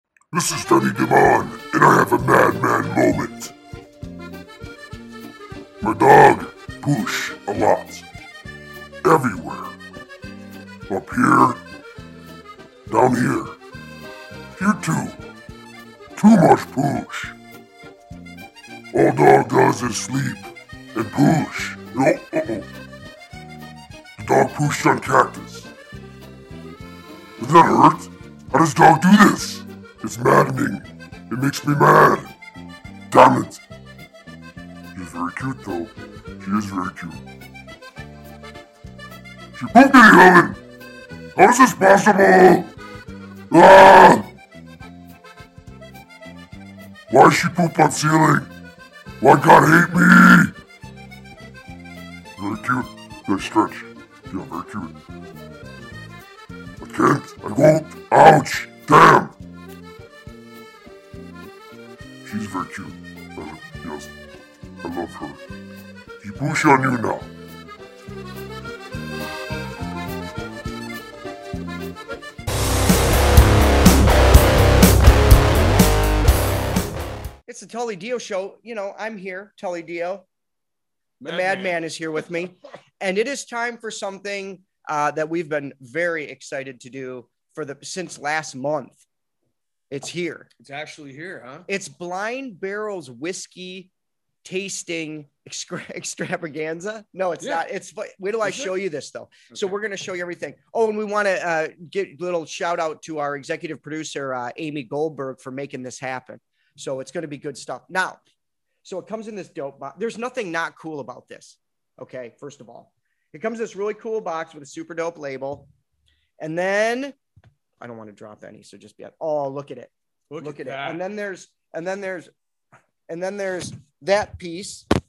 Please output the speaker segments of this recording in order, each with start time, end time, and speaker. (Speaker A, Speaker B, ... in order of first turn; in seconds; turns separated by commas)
Speaker A: 0.3-3.5, Speaker A: 5.8-8.1, Speaker A: 9.0-9.7, Speaker A: 10.9-11.6, Speaker A: 12.9-13.5, Speaker A: 14.6-15.2, Speaker A: 16.2-17.4, Speaker A: 18.9-22.7, Speaker A: 24.2-25.7, Speaker A: 27.4-32.3, Speaker A: 33.1-33.6, Speaker A: 35.0-37.2, Speaker A: 39.6-40.6, Speaker A: 41.4-42.7, Speaker A: 43.5-44.3, Speaker A: 47.1-48.5, Speaker A: 49.2-50.5, Speaker A: 52.4-54.9, Speaker A: 56.8-59.3, Speaker A: 62.2-64.1, Speaker A: 64.8-65.4, Speaker A: 66.2-67.3, Speaker B: 77.5-80.2, Speaker C: 81.2-81.8, Speaker B: 81.2-89.0, Speaker B: 89.9-90.5, Speaker C: 90.6-91.7, Speaker B: 91.7-93.9, Speaker B: 94.4-108.2, Speaker C: 98.4-98.7, Speaker C: 99.5-99.8, Speaker B: 108.8-115.7, Speaker B: 116.4-117.2, Speaker B: 117.8-122.3, Speaker C: 120.3-121.0, Speaker B: 123.1-124.9